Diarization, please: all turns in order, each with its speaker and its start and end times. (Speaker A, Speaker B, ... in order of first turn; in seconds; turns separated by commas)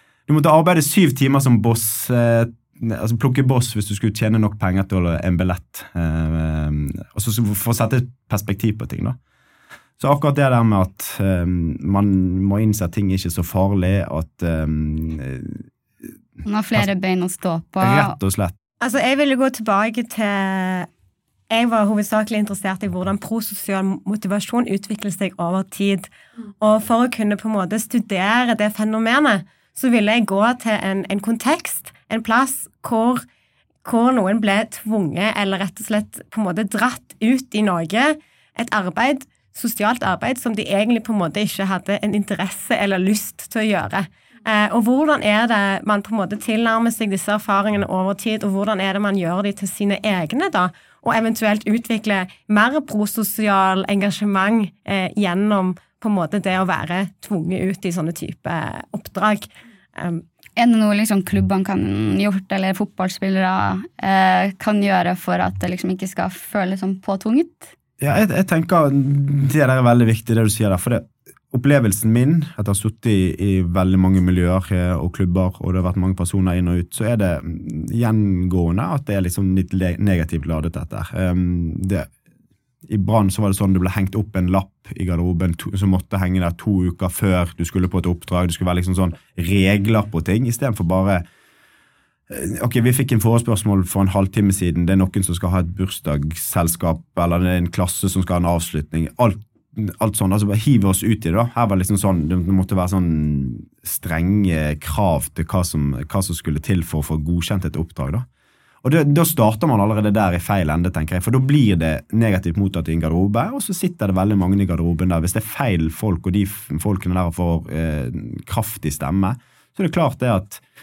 Speaker A: 0.3-9.2, Speaker A: 10.0-15.6, Speaker B: 16.4-18.1, Speaker A: 17.8-18.5, Speaker C: 18.8-20.9, Speaker C: 21.5-26.1, Speaker C: 26.6-33.2, Speaker C: 33.8-60.2, Speaker B: 60.5-67.7, Speaker A: 68.0-82.1, Speaker A: 82.9-91.2, Speaker A: 92.3-108.2, Speaker A: 108.8-120.6